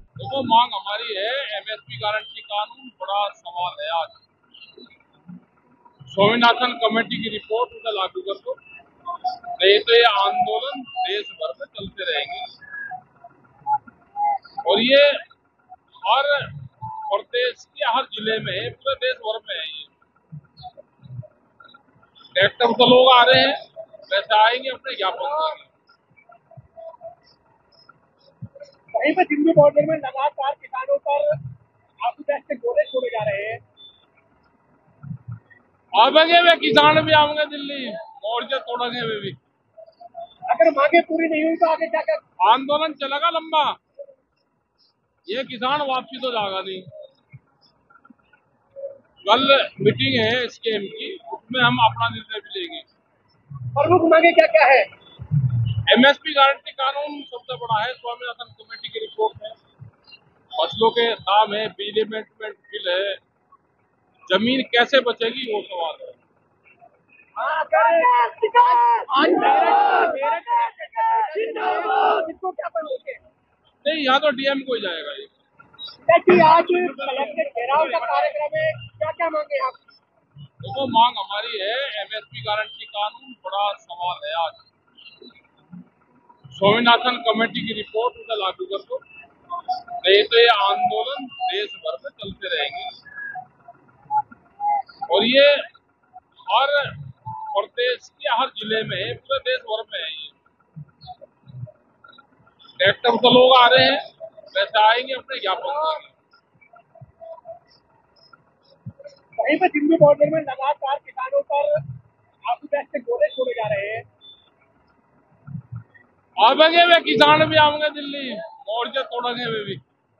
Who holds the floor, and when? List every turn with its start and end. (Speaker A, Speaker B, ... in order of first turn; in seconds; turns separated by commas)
Speaker A: 0.2-4.2, Speaker A: 6.1-8.6, Speaker A: 9.6-12.4, Speaker A: 14.6-15.2, Speaker A: 16.0-19.9, Speaker A: 22.3-25.7, Speaker B: 28.9-31.3, Speaker B: 32.0-33.6, Speaker A: 35.9-39.4, Speaker B: 40.5-42.2, Speaker A: 42.4-43.8, Speaker A: 45.3-46.9, Speaker A: 49.2-52.9, Speaker B: 53.7-54.9, Speaker A: 55.9-59.6, Speaker A: 60.5-63.2, Speaker A: 64.3-66.2, Speaker B: 67.4-73.2, Speaker A: 73.8-75.3, Speaker B: 76.0-79.8, Speaker A: 76.8-78.3, Speaker A: 80.6-84.6, Speaker A: 86.5-89.0, Speaker A: 90.0-92.9, Speaker A: 95.1-95.6, Speaker A: 96.5-100.3, Speaker A: 102.8-106.1, Speaker B: 109.4-111.8, Speaker B: 112.5-114.0, Speaker A: 116.4-119.8